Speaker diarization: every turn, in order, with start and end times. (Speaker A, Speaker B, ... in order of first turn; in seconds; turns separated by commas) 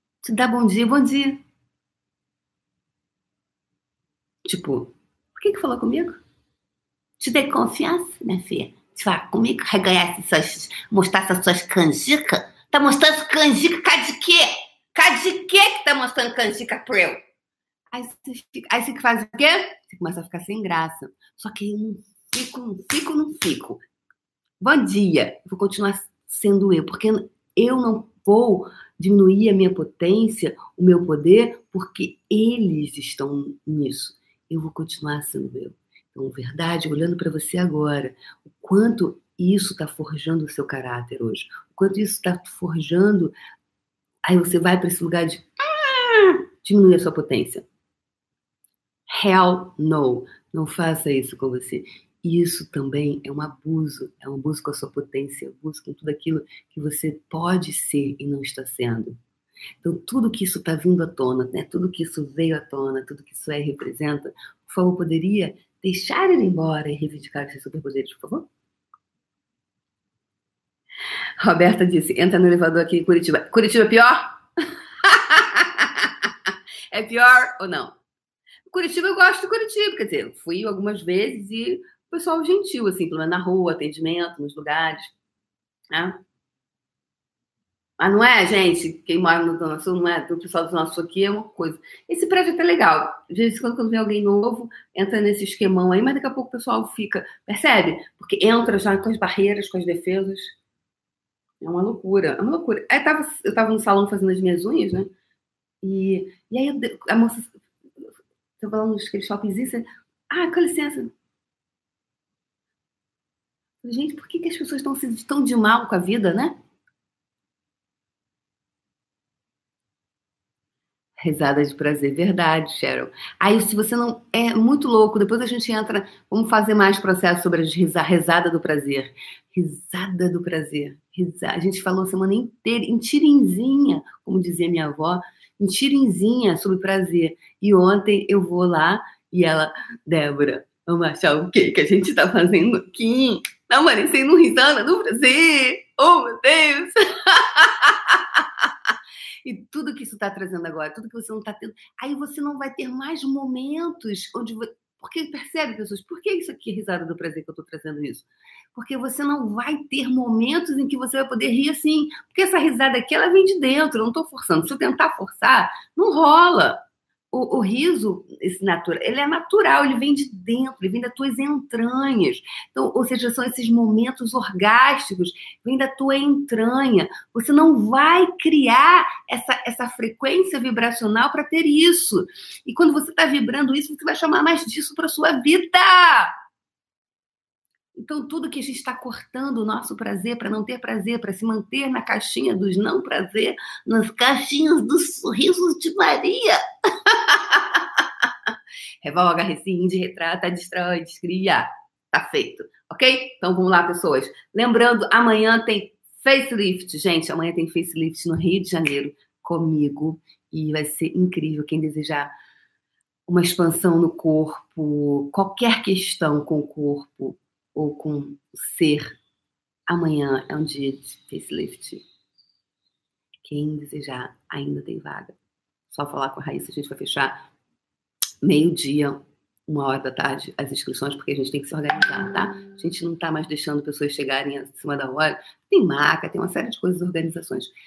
Speaker A: 0.2-1.4, Speaker A: 4.5-6.2, Speaker A: 7.2-17.2, Speaker A: 17.9-23.8, Speaker A: 24.6-43.3, Speaker A: 44.3-47.6, Speaker A: 49.1-59.2, Speaker A: 59.8-68.5, Speaker A: 71.4-74.4, Speaker A: 75.0-78.0, Speaker A: 78.7-85.1, Speaker A: 88.0-100.5, Speaker A: 101.6-105.1, Speaker A: 105.8-107.5, Speaker A: 108.6-111.1, Speaker A: 113.8-116.5, Speaker A: 121.2-148.7, Speaker A: 149.4-166.8, Speaker A: 167.3-186.3, Speaker A: 187.9-198.3, Speaker A: 199.0-212.3, Speaker A: 213.3-219.2, Speaker A: 219.9-222.0, Speaker A: 223.4-225.4, Speaker A: 225.9-227.5, Speaker A: 228.4-237.7